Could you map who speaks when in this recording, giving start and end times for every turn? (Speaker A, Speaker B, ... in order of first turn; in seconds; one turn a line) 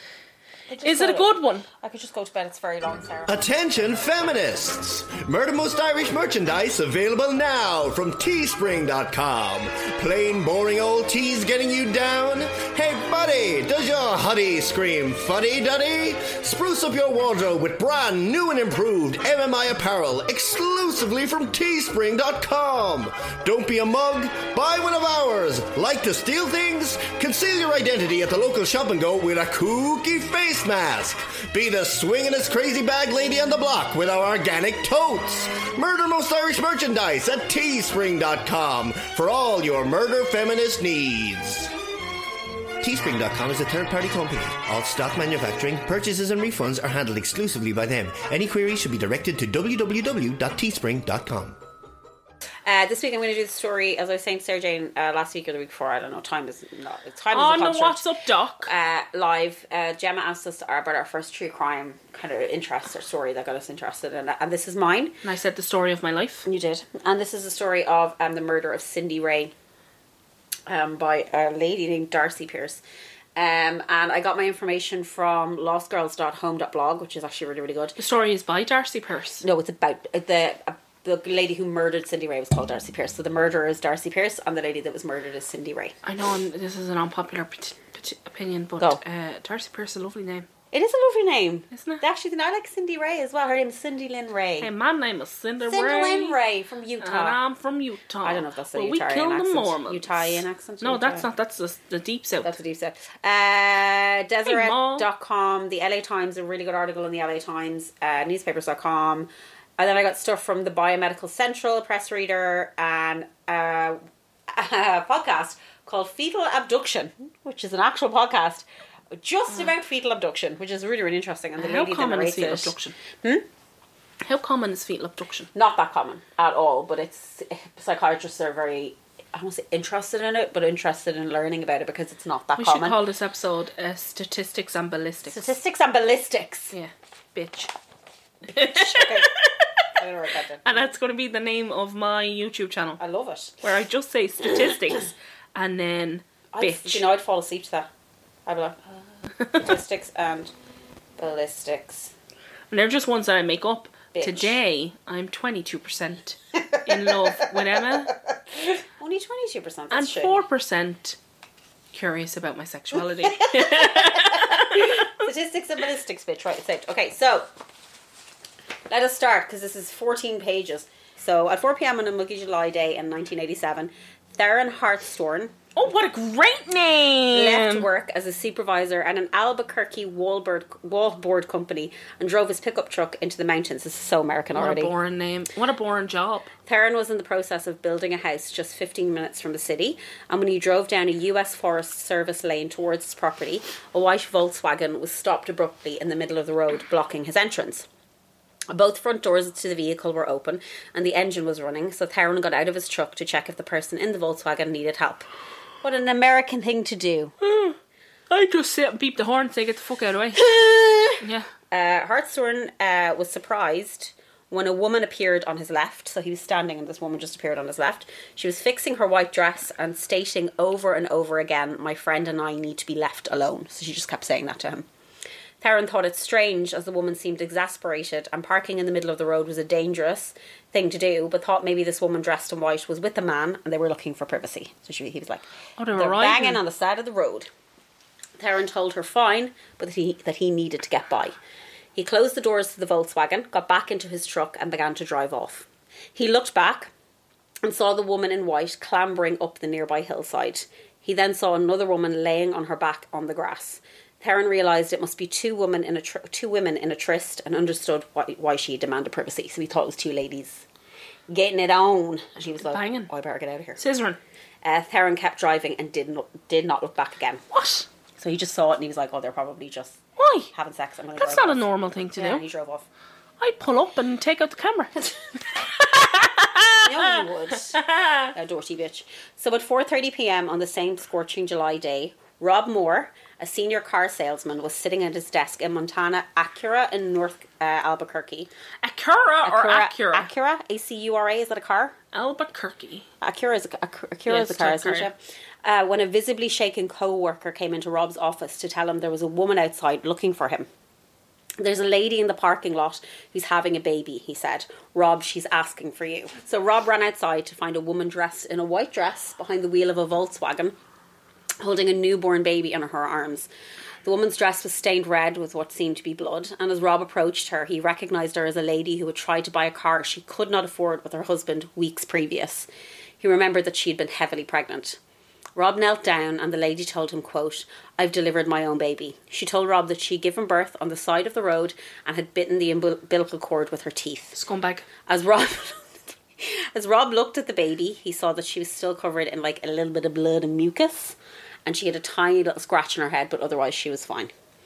Speaker A: 0.7-3.4
Speaker B: 0.8-1.6
Speaker C: 3.3-41.7
Speaker C: 42.8-51.6
Speaker A: 52.6-58.0
Speaker B: 57.3-58.7
Speaker A: 58.6-65.2
Speaker B: 65.2-66.5
Speaker A: 66.4-69.5
Speaker A: 70.7-72.8
Speaker A: 73.3-78.0
Speaker B: 78.0-79.4
Speaker A: 79.4-85.9
Speaker B: 86.0-90.5
Speaker A: 90.7-94.7
Speaker B: 91.7-92.0
Speaker B: 94.6-96.4
Speaker A: 95.7-97.4
Speaker B: 97.0-102.5
Speaker A: 98.2-101.3
Speaker A: 102.4-123.5
Speaker B: 104.4-105.1
Speaker B: 121.6-122.9
Speaker B: 124.2-125.5
Speaker A: 125.5-133.0
Speaker B: 132.6-135.5
Speaker A: 135.2-136.7
Speaker B: 136.7-137.7
Speaker B: 138.4-139.9
Speaker A: 138.5-139.3
Speaker A: 140.0-140.8
Speaker B: 140.6-143.0
Speaker A: 143.0-143.6
Speaker B: 143.6-147.1
Speaker A: 146.5-147.9
Speaker A: 148.4-148.9
Speaker A: 149.5-150.5
Speaker A: 151.2-152.1
Speaker B: 152.7-158.1
Speaker A: 154.1-154.6
Speaker A: 156.7-160.4
Speaker B: 159.9-161.2
Speaker B: 161.9-165.1
Speaker A: 163.2-167.5
Speaker A: 168.9-175.5
Speaker B: 175.7-177.9
Speaker A: 177.3-184.9
Speaker B: 184.5-186.5
Speaker A: 186.7-197.8
Speaker A: 198.7-205.2
Speaker A: 205.8-207.3
Speaker B: 207.4-207.8
Speaker B: 208.3-210.5
Speaker A: 210.3-224.9
Speaker B: 211.2-211.5
Speaker A: 225.6-237.5
Speaker B: 235.8-236.6
Speaker A: 238.4-241.3
Speaker A: 241.9-246.9
Speaker A: 247.6-260.6
Speaker A: 261.3-263.8
Speaker B: 262.4-263.1
Speaker B: 263.8-264.2
Speaker A: 264.6-267.4
Speaker B: 267.5-267.9
Speaker A: 268.2-270.0
Speaker B: 270.2-270.5
Speaker A: 270.5-272.9
Speaker B: 271.1-272.4
Speaker B: 273.4-275.1
Speaker B: 275.8-277.2
Speaker A: 276.8-277.8
Speaker B: 277.7-278.3
Speaker A: 278.3-288.5
Speaker B: 288.8-290.3
Speaker A: 289.4-291.9
Speaker B: 292.1-293.1
Speaker A: 293.2-300.7
Speaker B: 294.3-295.1
Speaker A: 301.6-310.8
Speaker A: 311.6-313.5
Speaker A: 314.0-322.7
Speaker A: 323.2-325.0
Speaker A: 325.6-334.4
Speaker B: 334.3-334.9
Speaker A: 335.1-344.3